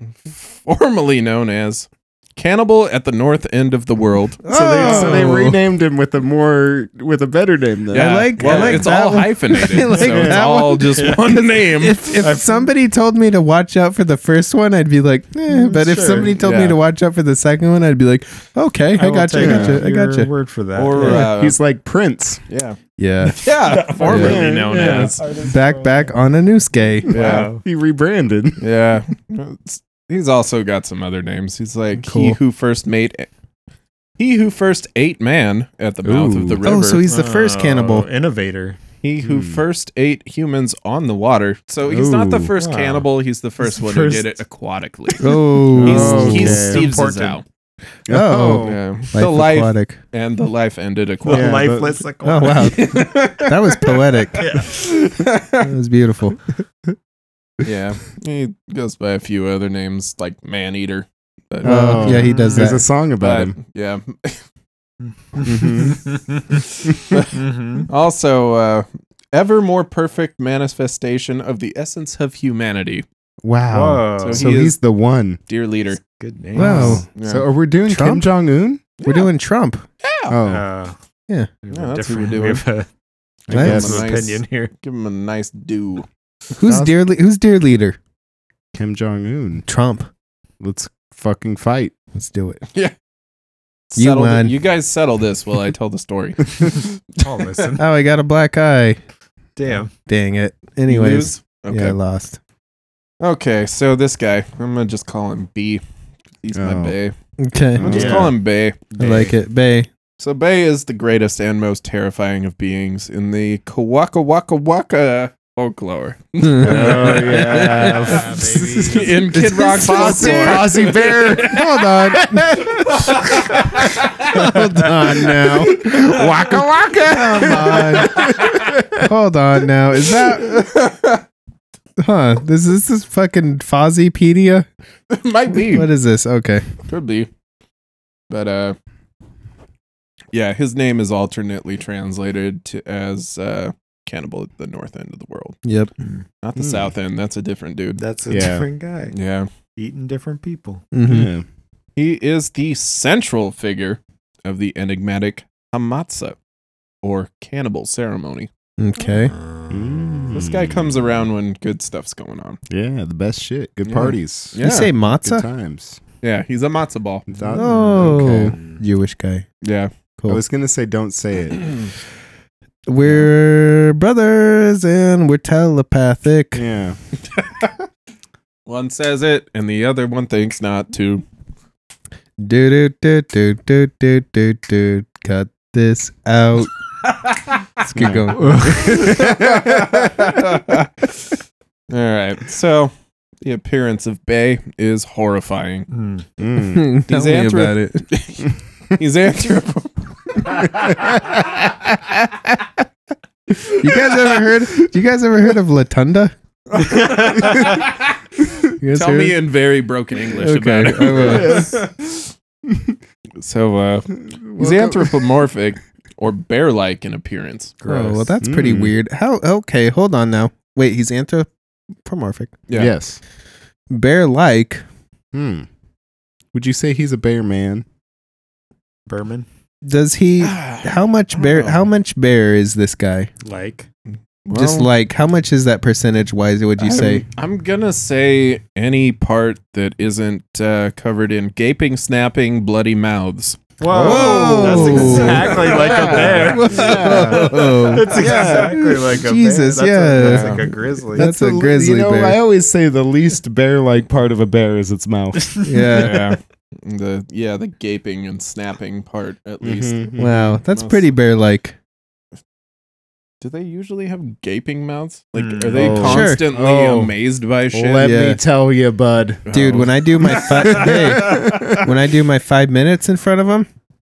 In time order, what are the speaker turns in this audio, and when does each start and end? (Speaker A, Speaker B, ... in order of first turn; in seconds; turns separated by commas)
Speaker A: 0.3-5.2, Speaker B: 4.4-5.6, Speaker C: 4.6-5.2, Speaker D: 4.7-8.8, Speaker A: 7.9-12.2, Speaker B: 7.9-20.3, Speaker C: 8.4-8.8, Speaker D: 10.0-10.4, Speaker C: 10.9-11.2, Speaker C: 12.0-12.7, Speaker C: 15.5-16.4, Speaker A: 16.3-16.8, Speaker C: 18.9-21.3, Speaker D: 19.4-19.8, Speaker A: 20.8-21.6, Speaker B: 21.0-21.3, Speaker D: 21.1-22.4, Speaker A: 22.5-22.8, Speaker B: 23.0-23.4, Speaker A: 23.3-25.2, Speaker C: 23.6-26.1, Speaker B: 24.0-27.1, Speaker D: 24.1-25.1, Speaker A: 27.1-27.5, Speaker C: 27.1-27.6, Speaker D: 27.1-28.6, Speaker A: 28.6-33.3, Speaker B: 32.0-32.4, Speaker A: 34.2-37.0, Speaker D: 36.0-36.7, Speaker B: 36.6-38.1, Speaker C: 37.1-38.8, Speaker A: 39.0-47.4, Speaker D: 39.2-39.6, Speaker D: 41.9-42.5, Speaker C: 42.6-43.1, Speaker C: 43.6-44.4, Speaker B: 45.2-46.7, Speaker D: 45.7-46.9, Speaker C: 45.8-47.4, Speaker D: 48.1-48.8, Speaker B: 48.1-50.0, Speaker A: 48.6-51.6, Speaker C: 51.3-52.9, Speaker D: 51.3-52.0, Speaker B: 52.2-54.6, Speaker A: 52.6-55.7, Speaker C: 54.3-54.8, Speaker B: 55.6-56.4, Speaker A: 57.6-62.3, Speaker D: 61.6-63.5, Speaker B: 61.6-62.8, Speaker C: 62.2-62.6, Speaker A: 63.2-64.4, Speaker C: 65.0-66.6, Speaker D: 65.4-66.0, Speaker A: 67.1-73.0, Speaker C: 67.2-67.9, Speaker D: 73.4-75.4, Speaker C: 73.7-74.5, Speaker A: 74.2-74.8, Speaker A: 75.5-76.0, Speaker C: 76.2-77.0, Speaker D: 76.5-78.8, Speaker B: 76.5-77.0, Speaker A: 76.7-77.5, Speaker B: 77.9-78.3, Speaker A: 79.0-79.3, Speaker B: 79.0-79.8, Speaker A: 80.0-80.3, Speaker D: 80.3-80.6, Speaker C: 80.4-81.0, Speaker C: 81.6-82.9, Speaker A: 81.7-82.6, Speaker D: 83.5-84.0, Speaker B: 83.5-83.9, Speaker A: 83.5-86.1, Speaker C: 83.5-84.7, Speaker B: 86.5-88.0, Speaker D: 86.6-87.0, Speaker D: 88.7-89.6, Speaker B: 89.7-90.1, Speaker D: 90.6-91.9, Speaker B: 92.1-92.6, Speaker A: 93.9-97.2, Speaker B: 94.0-94.5, Speaker C: 97.2-97.8, Speaker B: 97.8-99.0, Speaker C: 99.5-99.9, Speaker B: 100.1-102.4, Speaker A: 100.9-102.0, Speaker A: 103.2-105.8, Speaker A: 106.4-107.1, Speaker D: 106.5-107.0, Speaker B: 107.4-108.3, Speaker D: 107.8-108.3, Speaker A: 107.8-108.8, Speaker C: 108.9-109.3, Speaker B: 109.0-109.9, Speaker A: 110.2-122.0, Speaker B: 116.4-117.7, Speaker D: 116.6-119.1, Speaker C: 117.6-119.2, Speaker B: 119.3-120.7, Speaker D: 119.7-123.6, Speaker B: 121.4-125.8, Speaker A: 122.8-128.7, Speaker D: 125.1-129.0, Speaker B: 127.1-130.5, Speaker A: 130.0-131.2, Speaker B: 132.0-134.7, Speaker A: 135.1-135.9, Speaker B: 135.6-136.7, Speaker A: 136.9-137.3, Speaker A: 138.3-138.8, Speaker A: 140.3-145.6, Speaker B: 145.6-145.9, Speaker A: 146.4-148.0, Speaker D: 146.6-146.9, Speaker C: 148.0-149.1, Speaker D: 148.3-148.7, Speaker A: 149.1-149.5, Speaker C: 149.8-150.8, Speaker B: 150.9-151.3, Speaker D: 151.0-151.4, Speaker A: 151.9-156.4, Speaker A: 157.0-158.5, Speaker B: 158.8-159.3, Speaker C: 159.0-160.4, Speaker D: 159.7-161.0, Speaker A: 160.3-162.6, Speaker D: 162.7-166.0, Speaker A: 163.8-164.9, Speaker B: 164.6-165.4, Speaker A: 166.2-167.3, Speaker D: 167.3-168.6, Speaker C: 167.4-168.8, Speaker B: 167.5-169.4, Speaker A: 169.6-169.9, Speaker D: 170.3-171.6, Speaker A: 171.5-171.9, Speaker B: 172.9-176.6, Speaker D: 176.5-177.0, Speaker A: 177.3-177.8, Speaker A: 178.7-181.2, Speaker B: 182.4-186.7, Speaker A: 187.1-187.5, Speaker B: 187.8-189.0, Speaker D: 187.9-190.4, Speaker C: 188.3-189.1, Speaker A: 188.7-191.1, Speaker A: 191.9-195.9, Speaker C: 195.9-196.2, Speaker D: 196.4-196.9, Speaker B: 196.6-198.1, Speaker A: 197.1-201.2, Speaker D: 200.8-201.8, Speaker B: 203.7-206.3, Speaker A: 206.7-208.1, Speaker C: 206.8-207.8, Speaker B: 208.8-209.4, Speaker A: 208.9-212.2, Speaker B: 210.3-211.7, Speaker D: 211.1-211.9, Speaker D: 212.7-213.0, Speaker A: 213.4-217.8, Speaker D: 214.2-215.3, Speaker C: 217.8-218.3, Speaker B: 217.8-221.5, Speaker D: 218.4-218.9, Speaker B: 222.0-222.5, Speaker A: 222.7-222.9, Speaker D: 222.7-223.2, Speaker B: 223.9-224.8, Speaker D: 225.3-225.7, Speaker D: 226.5-227.8, Speaker C: 229.1-229.4, Speaker B: 229.8-233.3, Speaker A: 230.4-231.8, Speaker C: 233.4-233.9, Speaker A: 234.4-234.9, Speaker B: 234.5-237.2, Speaker A: 236.8-248.6, Speaker C: 243.8-251.3, Speaker D: 243.9-248.8, Speaker B: 244.0-252.4, Speaker A: 250.2-250.7, Speaker D: 251.1-255.5, Speaker C: 255.4-256.2, Speaker B: 255.6-256.3, Speaker A: 255.9-261.1, Speaker D: 259.6-260.6, Speaker B: 260.2-261.8, Speaker A: 263.4-268.1, Speaker C: 265.4-266.0, Speaker D: 265.7-267.1, Speaker B: 266.0-266.4, Speaker D: 267.7-271.9, Speaker B: 268.0-268.4, Speaker A: 269.4-271.8, Speaker B: 269.5-273.7